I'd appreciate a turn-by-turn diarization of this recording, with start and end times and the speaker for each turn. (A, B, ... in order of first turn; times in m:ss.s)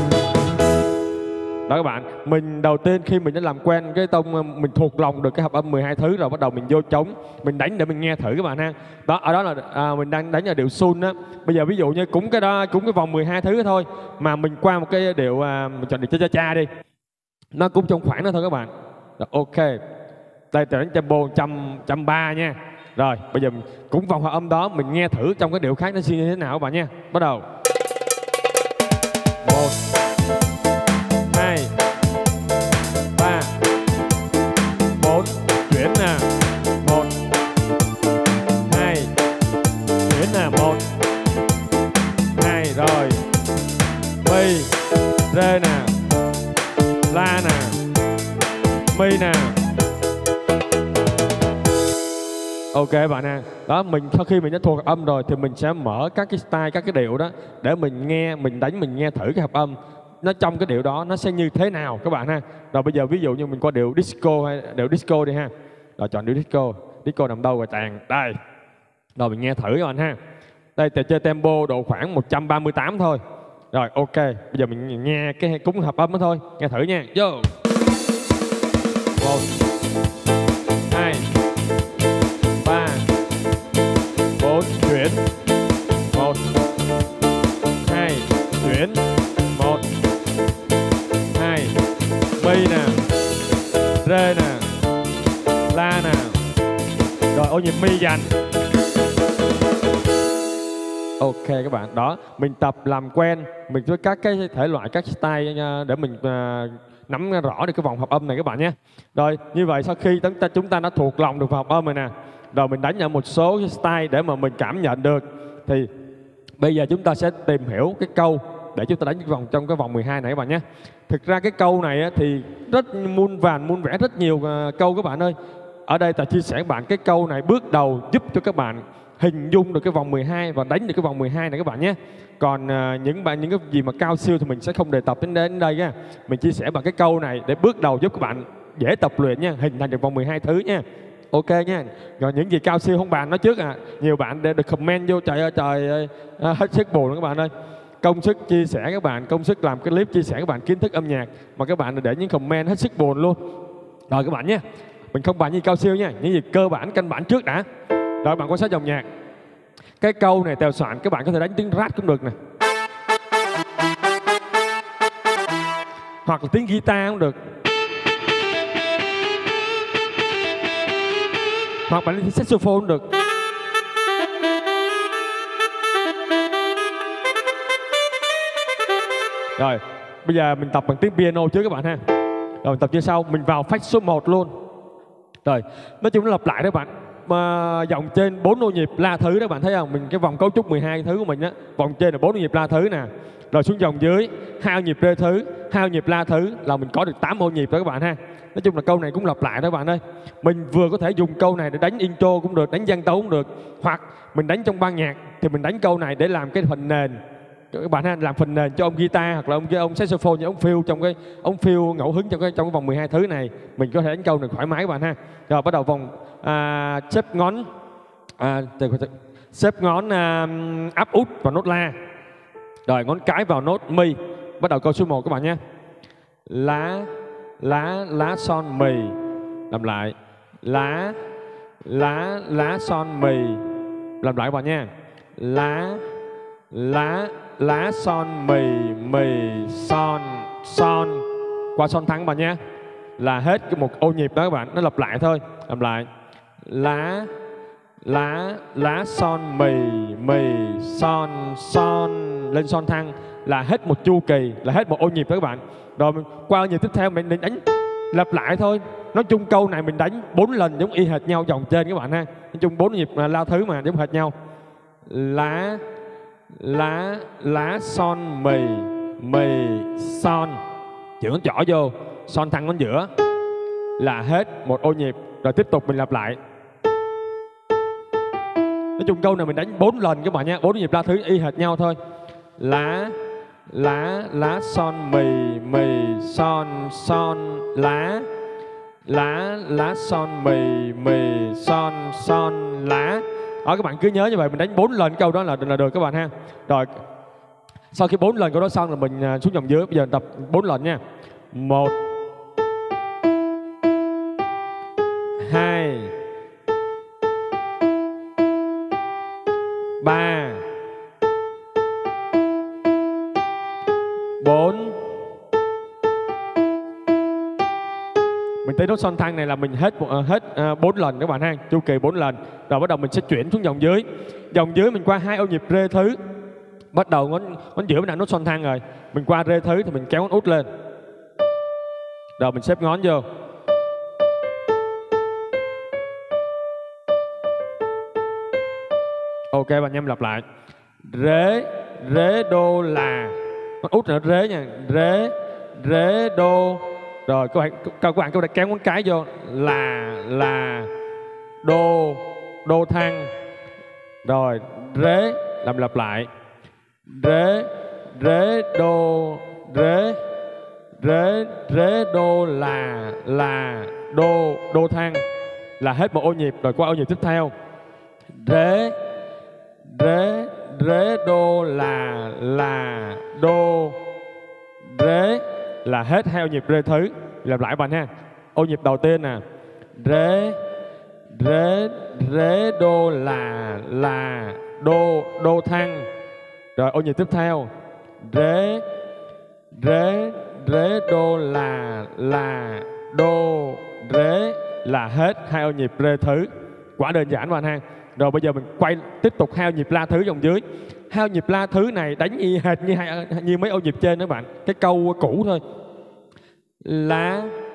0:01.7-0:16.7 A
0:17.5-0:19.8 A
0:20.5-0:27.4 A
0:29.4-0:29.8 A
0:31.3-0:31.7 A
0:33.2-0:33.5 A
0:34.9-0:36.3 A
0:36.8-0:37.1 A
0:38.6-0:39.1 A
0:40.0-0:40.8 A
0:42.3-0:43.2 A
0:44.2-0:44.7 A
0:45.3-0:46.0 A
0:47.1-0:47.8 A
0:48.9-0:49.6 A
0:52.7-1:08.4 A
1:09.2-1:10.2 A
1:10.8-1:13.2 A
1:13.7-1:17.5 A
1:19.2-1:19.5 A
1:20.9-1:21.3 A
1:22.6-1:23.1 A
1:24.4-1:25.2 A
1:26.1-1:26.4 A
1:27.8-1:29.8 A
1:31.3-1:31.8 A
1:32.4-1:33.0 A
1:34.0-1:34.7 A
1:35.7-1:36.4 A
1:37.3-1:38.3 A
1:41.2-1:55.9 A
1:56.6-2:05.3 A
2:05.9-2:27.5 A
2:28.0-2:33.4 A
2:34.1-2:37.6 A
2:38.2-2:39.0 A
2:40.0-2:42.3 A
2:46.2-2:47.4 A
2:51.9-2:53.0 A
2:59.6-3:02.0 A
3:02.6-3:04.5 A
3:05.4-3:27.2 A
3:27.7-3:37.7 A
3:38.4-3:41.9 A
3:42.9-3:45.6 A
3:46.4-3:49.2 A
3:49.7-3:51.2 A
3:51.8-3:53.6 A
3:54.2-3:56.0 A
3:56.7-4:02.6 A
4:03.2-4:06.1 A
4:06.6-4:07.3 A
4:08.0-4:24.3 A
4:25.0-4:25.8 A
4:26.5-4:30.6 A
4:31.2-4:33.1 A
4:34.0-4:36.4 A
4:39.0-4:42.0 A
4:42.6-4:43.2 A
4:43.7-4:48.3 A
4:49.0-4:57.0 A
4:57.9-5:01.0 A
5:01.5-5:02.0 A
5:05.4-5:06.1 A
5:10.0-5:10.7 A
5:14.4-5:15.0 A
5:18.6-5:26.2 A
5:26.9-5:30.7 A
5:32.4-5:33.2 A
5:39.5-5:40.4 A
5:41.0-5:50.9 A
5:51.6-5:53.3 A
5:54.2-5:56.3 A
5:57.1-6:00.2 A
6:01.0-6:05.2 A
6:05.8-6:07.5 A
6:08.3-6:09.0 A
6:09.8-6:14.0 A
6:14.8-6:19.4 A
6:20.0-6:20.6 A
6:21.3-6:26.1 A
6:26.8-6:27.7 A
6:28.2-6:28.8 A
6:29.7-6:45.6 A
6:46.8-6:47.6 A